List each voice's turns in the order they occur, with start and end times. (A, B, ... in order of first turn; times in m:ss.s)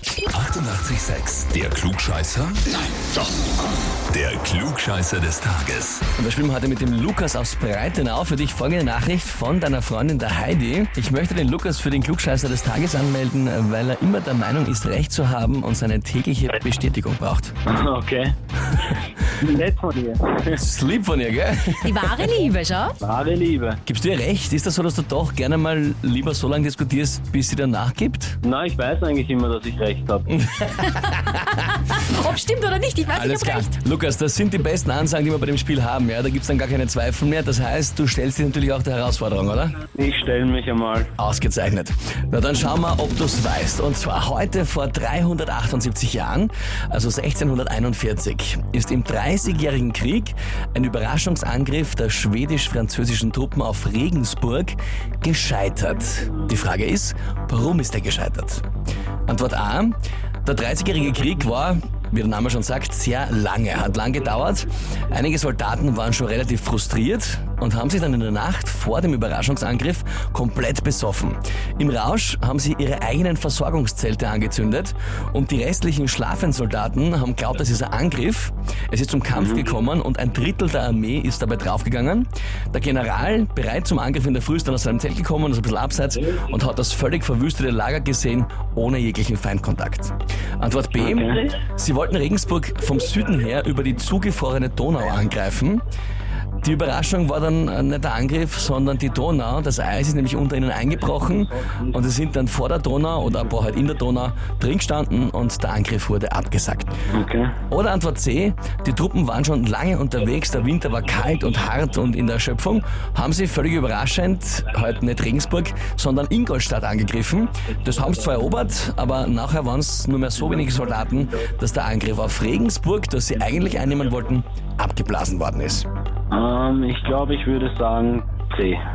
0:00.3-0:02.6 A
0:04.1-0:06.0 A
0:06.2-0:17.5 B
0:17.7-0:18.3 C
0:19.4-0:20.6 C
0:20.5-0:22.3 B
0:21.8-0:23.0 D
0:23.0-0:23.8 C
0:23.8-0:28.4 B
0:28.4-0:30.2 C
0:30.5-0:31.4 B
0:31.6-0:33.7 D
0:33.1-0:39.8 B
0:39.9-0:41.1 C
0:41.2-0:58.6 B
0:59.3-1:35.8 B
1:19.3-1:19.6 C
1:31.0-1:31.4 C
1:36.6-1:47.0 B
1:47.1-1:47.5 C
1:47.7-2:05.9 B
2:06.3-2:08.8 C